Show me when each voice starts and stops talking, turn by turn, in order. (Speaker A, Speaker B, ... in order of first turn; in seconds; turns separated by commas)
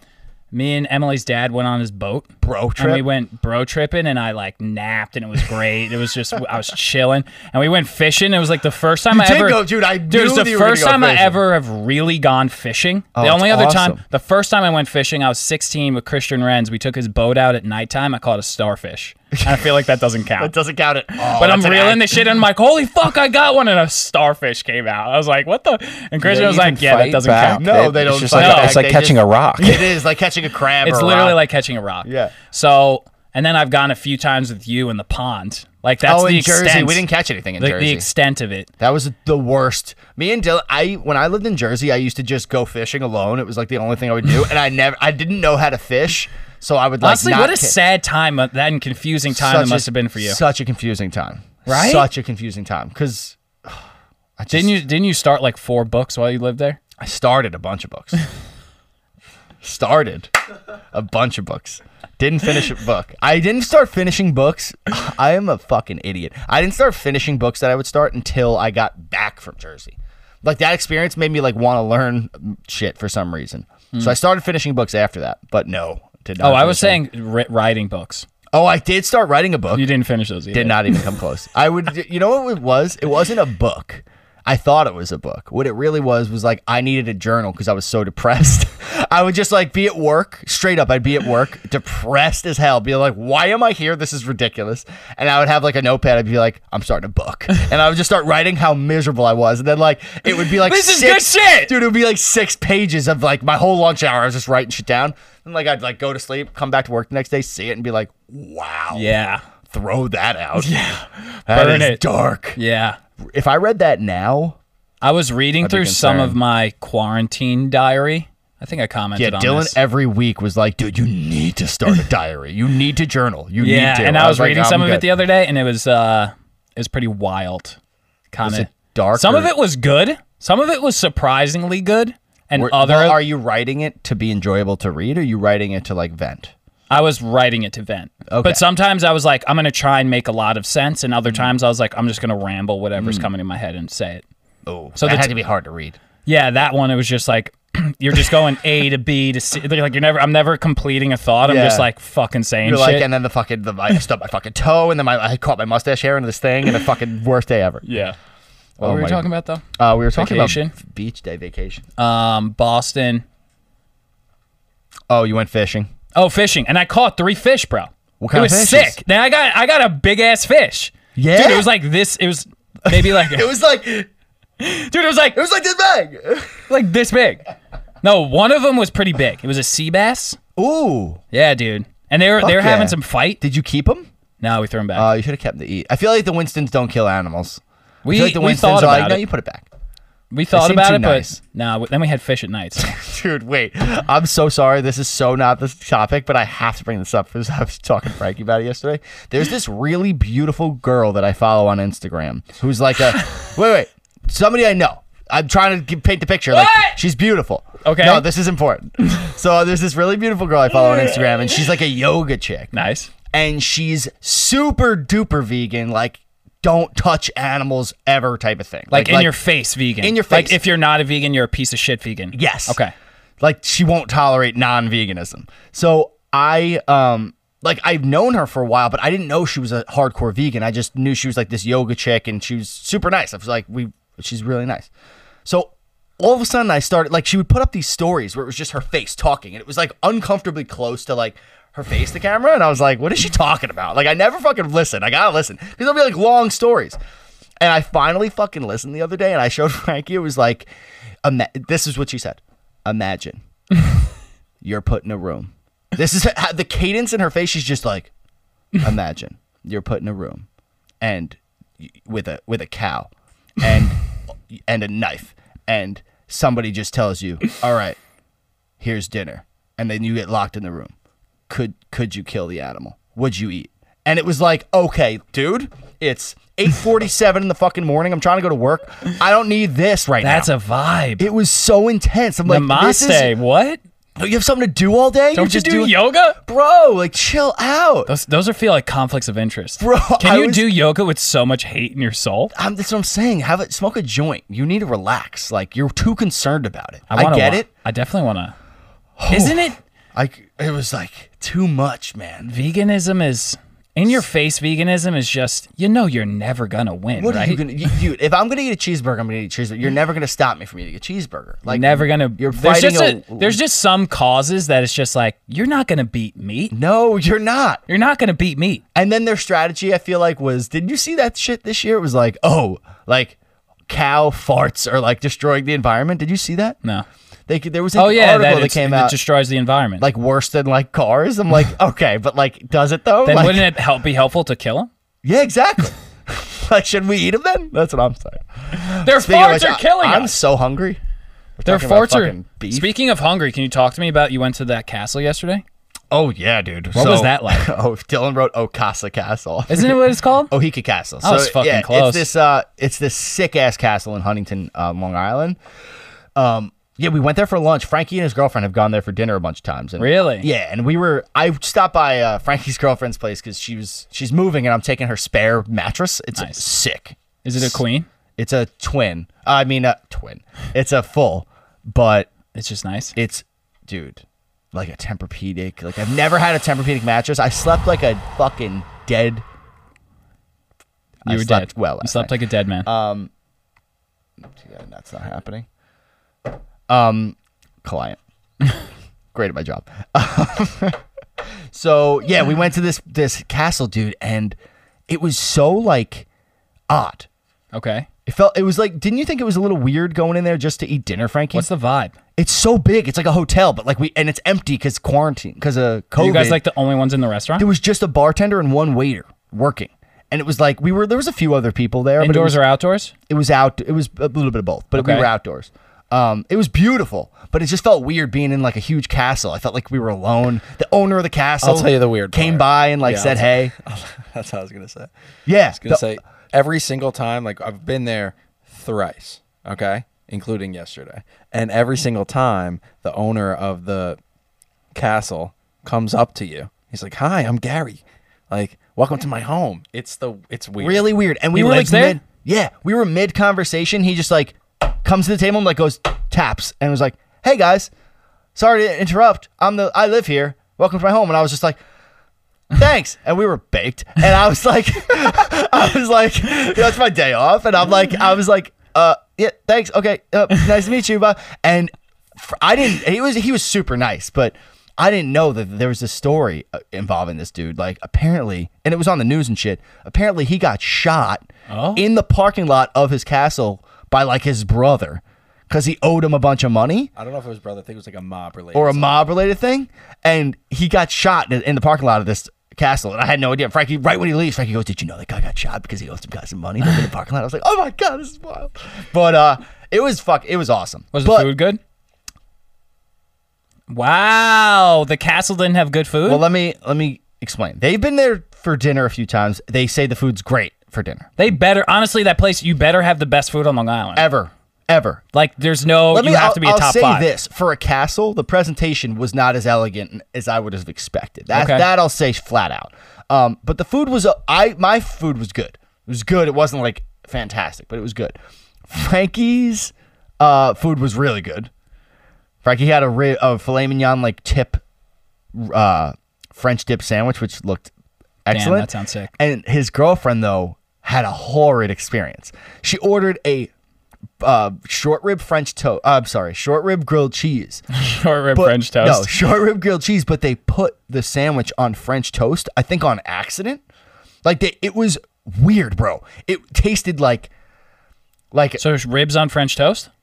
Speaker A: 0.5-20.5, Speaker B: 2.4-3.0, Speaker B: 9.1-11.4, Speaker B: 13.1-14.0, Speaker B: 20.4-22.2, Speaker A: 21.3-27.7, Speaker C: 26.2-29.9, Speaker B: 27.5-31.4, Speaker A: 28.3-28.8, Speaker A: 30.8-37.0, Speaker B: 32.0-32.3, Speaker B: 36.0-38.1, Speaker A: 37.6-38.7, Speaker B: 38.8-47.8, Speaker A: 47.0-50.4, Speaker B: 49.3-53.8, Speaker A: 51.6-52.1, Speaker B: 54.4-54.8, Speaker A: 54.5-56.8, Speaker B: 57.0-58.2, Speaker B: 59.6-60.3, Speaker B: 60.9-77.0, Speaker A: 76.4-78.3, Speaker B: 78.5-79.9, Speaker A: 79.7-81.0, Speaker B: 80.5-109.1, Speaker A: 100.3-101.7, Speaker A: 108.9-109.4, Speaker B: 109.7-110.8, Speaker A: 110.6-112.0, Speaker B: 111.5-112.6, Speaker A: 112.5-113.0, Speaker B: 113.2-114.6, Speaker A: 115.0-119.8, Speaker B: 115.6-116.4, Speaker B: 119.2-125.1, Speaker A: 123.6-127.8, Speaker A: 128.3-133.2, Speaker B: 128.4-129.5, Speaker B: 132.5-136.5, Speaker A: 136.9-144.2, Speaker B: 138.3-138.6, Speaker B: 143.0-143.3, Speaker B: 144.7-146.0, Speaker A: 145.0-145.3, Speaker A: 146.2-153.1, Speaker B: 151.4-151.9, Speaker B: 152.6-157.8, Speaker A: 157.8-158.2, Speaker B: 158.8-159.2, Speaker A: 158.8-160.8, Speaker B: 159.8-161.8, Speaker A: 162.0-163.2, Speaker B: 165.1-165.9, Speaker A: 166.1-173.5, Speaker B: 168.2-169.0, Speaker B: 171.1-171.7, Speaker B: 172.9-174.1, Speaker A: 174.6-175.4, Speaker B: 175.3-176.7, Speaker A: 176.7-177.4, Speaker A: 178.0-180.4, Speaker B: 180.6-181.2, Speaker A: 181.3-183.4, Speaker B: 182.4-184.1, Speaker A: 184.4-185.1, Speaker B: 184.9-189.7, Speaker A: 188.0-189.2, Speaker A: 190.3-192.9, Speaker B: 190.5-191.4, Speaker B: 192.8-212.7, Speaker A: 206.5-207.0, Speaker A: 207.8-208.2, Speaker A: 212.7-213.1, Speaker B: 213.3-219.3, Speaker A: 218.9-222.9, Speaker B: 220.0-220.6, Speaker B: 222.3-222.8, Speaker B: 223.4-234.9, Speaker B: 235.4-247.0, Speaker B: 247.6-250.7, Speaker B: 251.2-253.4, Speaker B: 254.6-258.1, Speaker B: 258.8-260.4, Speaker B: 261.0-268.0, Speaker B: 268.8-270.9, Speaker B: 271.5-280.5, Speaker A: 280.2-281.3, Speaker B: 281.2-283.3, Speaker A: 282.4-283.8, Speaker B: 284.2-288.1, Speaker A: 285.3-286.4, Speaker A: 288.1-292.5, Speaker B: 289.8-290.7, Speaker B: 292.5-297.7, Speaker A: 297.1-298.5, Speaker B: 299.2-302.5, Speaker A: 299.3-299.8, Speaker A: 302.4-307.6, Speaker B: 307.1-313.6, Speaker A: 311.6-316.7, Speaker B: 316.7-317.8, Speaker A: 317.9-318.8, Speaker B: 318.9-323.4, Speaker B: 323.9-326.8, Speaker B: 327.5-329.2, Speaker A: 327.9-330.0, Speaker B: 330.0-333.7, Speaker A: 333.2-334.9, Speaker B: 335.2-341.0, Speaker A: 338.9-340.4, Speaker B: 341.6-342.9, Speaker A: 341.6-345.6, Speaker B: 346.1-355.6, Speaker A: 346.9-347.7, Speaker A: 349.7-350.5, Speaker A: 351.2-352.3, Speaker B: 356.3-367.8, Speaker A: 360.0-360.5, Speaker A: 366.3-366.7, Speaker A: 367.4-368.1, Speaker B: 368.4-372.3, Speaker A: 372.5-373.1, Speaker B: 373.1-379.4, Speaker B: 381.2-383.3, Speaker A: 381.2-382.9, Speaker B: 384.6-385.7, Speaker B: 386.9-388.2, Speaker B: 389.3-391.0, Speaker B: 391.7-394.6, Speaker B: 395.1-396.3, Speaker B: 396.9-397.3, Speaker A: 397.7-398.1, Speaker B: 398.2-401.7, Speaker A: 401.5-402.1, Speaker B: 402.4-406.6, Speaker A: 406.2-407.6, Speaker B: 407.6-412.6, Speaker A: 412.2-413.1, Speaker B: 413.3-423.7, Speaker A: 414.9-415.3, Speaker C: 421.6-425.1, Speaker B: 425.5-426.1, Speaker C: 425.7-434.2, Speaker C: 434.9-441.1, Speaker B: 440.8-447.9, Speaker A: 441.5-442.2, Speaker B: 448.5-451.8, Speaker B: 452.7-477.1, Speaker A: 471.7-472.0, Speaker C: 477.1-479.3, Speaker B: 478.7-491.5, Speaker A: 491.1-491.8, Speaker A: 493.9-496.4, Speaker B: 496.2-501.3, Speaker A: 501.4-504.2, Speaker B: 504.1-505.2, Speaker A: 505.3-507.3, Speaker B: 506.1-518.4, Speaker A: 511.5-511.9, Speaker B: 518.9-521.7, Speaker B: 522.6-524.8, Speaker B: 525.5-527.9, Speaker B: 528.4-533.7, Speaker A: 528.5-529.3, Speaker B: 534.4-537.8, Speaker A: 537.9-539.3, Speaker B: 538.5-543.8, Speaker B: 544.4-547.5, Speaker B: 548.5-548.8, Speaker A: 548.8-550.1